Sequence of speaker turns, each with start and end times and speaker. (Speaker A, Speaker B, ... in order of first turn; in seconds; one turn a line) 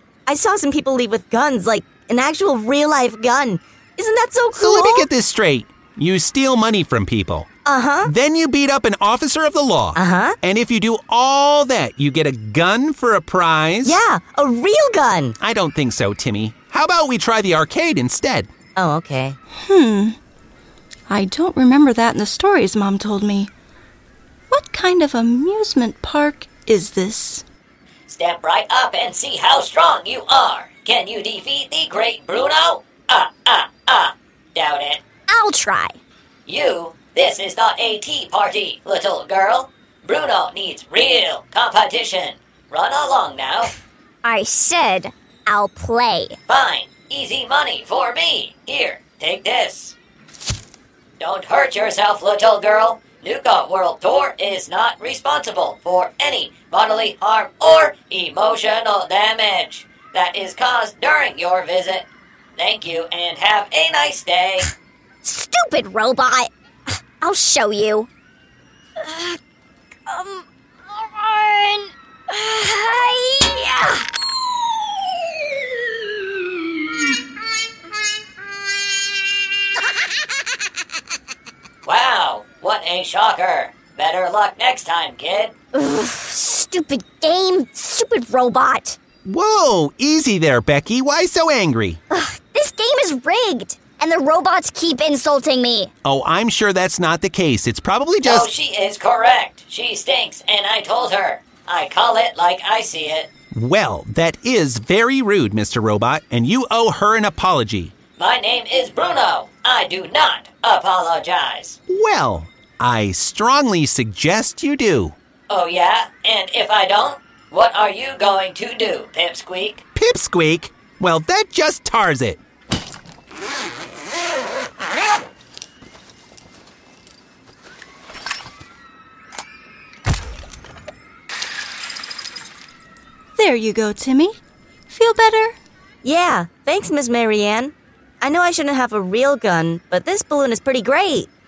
Speaker A: 0.2-5.1
Speaker B: 4.5-7.5
Speaker A: 7.6-8.1
Speaker B: 8.0-14.0
Speaker A: 9.9-10.3
Speaker A: 13.8-15.3
Speaker B: 15.4-18.5
Speaker A: 18.8-19.4
Speaker C: 19.6-20.2
Speaker C: 21.1-23.5
Speaker C: 24.5-27.4
Speaker D: 28.1-35.0
Speaker E: 35.3-36.0
Speaker D: 36.5-43.7
Speaker E: 44.2-46.4
Speaker D: 46.5-49.9
Speaker D: 51.2-64.7
Speaker E: 65.2-66.5
Speaker E: 67.2-68.1
Speaker E: 69.0-69.4
Speaker E: 70.1-74.0
Speaker D: 81.8-85.5
Speaker E: 85.7-89.0
Speaker B: 89.2-92.0
Speaker E: 92.1-95.9
Speaker B: 96.0-98.5
Speaker D: 98.2-103.3
Speaker B: 103.5-107.9
Speaker D: 108.2-111.8
Speaker B: 111.9-115.1
Speaker D: 115.5-119.8
Speaker B: 119.9-122.4
Speaker C: 133.3-134.4
Speaker C: 134.9-135.6
Speaker A: 136.0-141.3